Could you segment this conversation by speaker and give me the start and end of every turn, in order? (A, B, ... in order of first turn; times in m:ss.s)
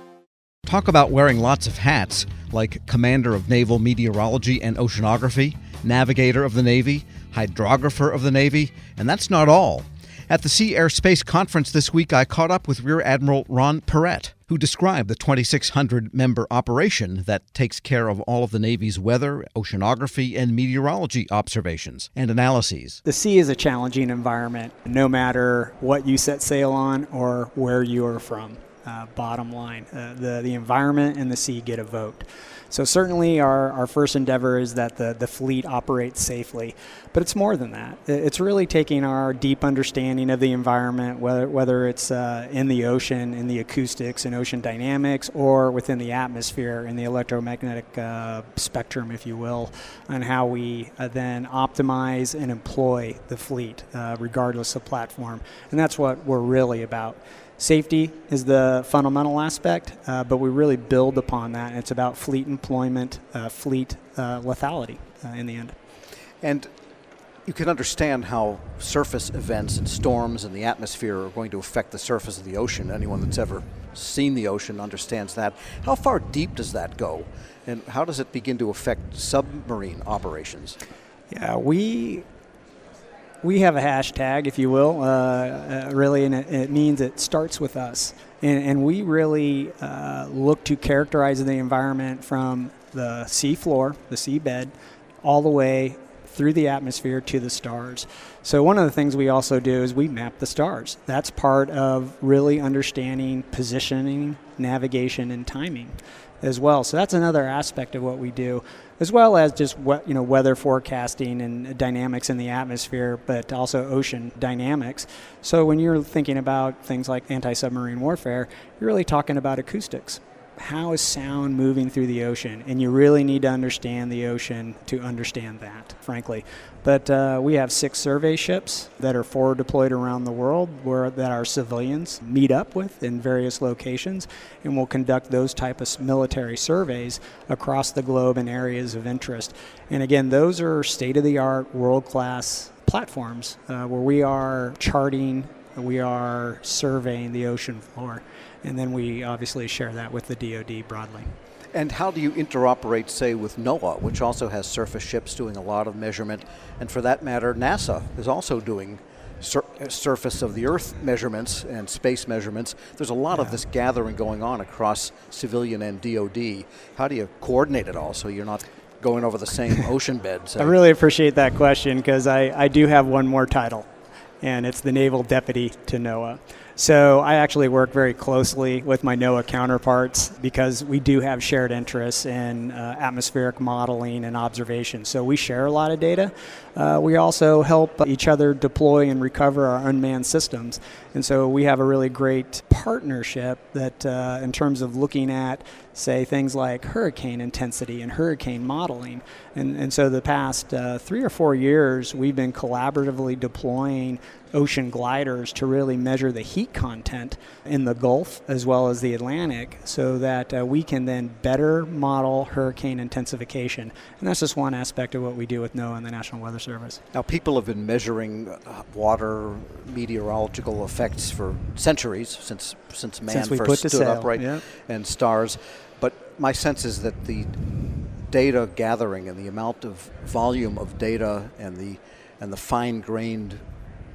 0:00.6-0:23.0 A
0:23.0-1:05.7 B
1:06.4-1:06.7 A
1:07.4-1:20.8 A
1:21.3-1:22.2 B
1:23.4-2:31.3 B
2:31.7-2:50.8 A
2:50.6-2:53.9 B
2:54.4-3:37.0 B
3:37.1-3:47.5 A
3:43.3-3:44.6 B
3:48.3-3:53.6 A